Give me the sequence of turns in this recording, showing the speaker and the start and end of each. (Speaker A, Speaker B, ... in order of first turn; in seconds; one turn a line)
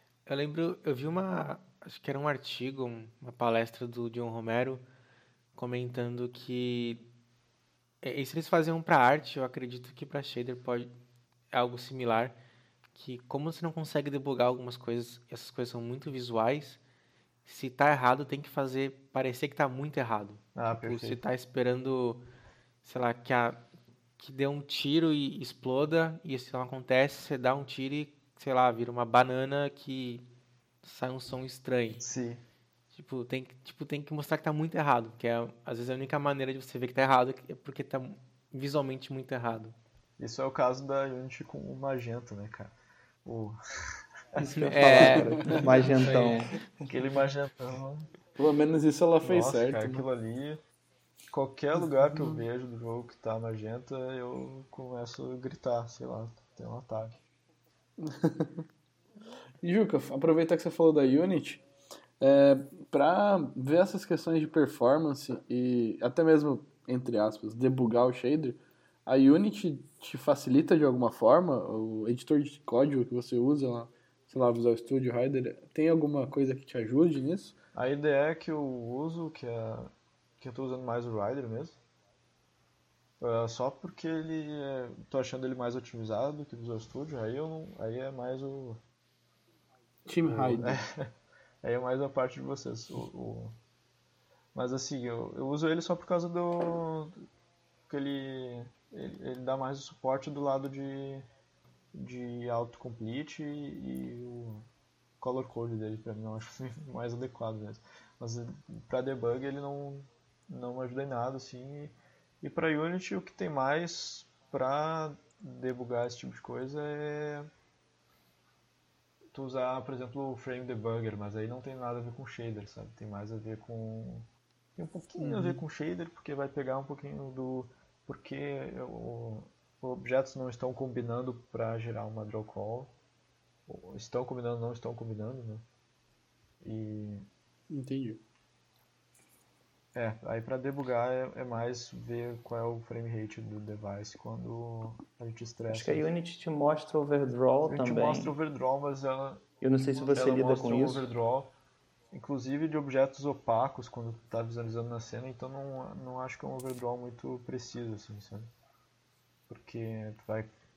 Speaker A: 0.3-4.8
Speaker A: 5.5-7.1
Speaker A: 8.0-10.9
Speaker A: 11.5-12.4
Speaker A: 12.9-16.8
Speaker A: 17.4-22.2
Speaker B: 20.6-21.2
Speaker A: 22.8-23.6
Speaker A: 24.2-30.3
Speaker A: 30.8-32.0
Speaker B: 32.0-32.4
Speaker A: 32.9-39.8
Speaker B: 40.2-42.7
Speaker B: 43.2-43.6
Speaker C: 44.4-46.9
Speaker B: 44.4-46.3
Speaker A: 44.5-46.4
Speaker B: 46.9-48.1
Speaker D: 48.4-50.0
Speaker B: 49.2-50.6
Speaker B: 51.3-57.2
Speaker D: 52.1-52.4
Speaker D: 58.0-58.6
Speaker D: 59.6-61.6
Speaker D: 62.2-77.5
Speaker B: 77.8-81.8
Speaker B: 83.2-88.8
Speaker D: 90.1-90.8
Speaker B: 90.3-91.1
Speaker B: 91.6-93.5
Speaker B: 94.5-97.2
Speaker B: 97.9-101.3
Speaker B: 101.9-104.7
Speaker B: 105.2-117.5
Speaker B: 119.3-132.9
Speaker D: 125.2-125.6
Speaker B: 133.7-135.7
Speaker B: 136.6-137.3
Speaker D: 137.7-138.2
Speaker B: 139.9-146.1
Speaker C: 145.7-148.4
Speaker B: 147.7-149.4
Speaker C: 149.6-151.1
Speaker B: 150.1-151.5
Speaker B: 152.1-158.5
Speaker B: 159.5-160.5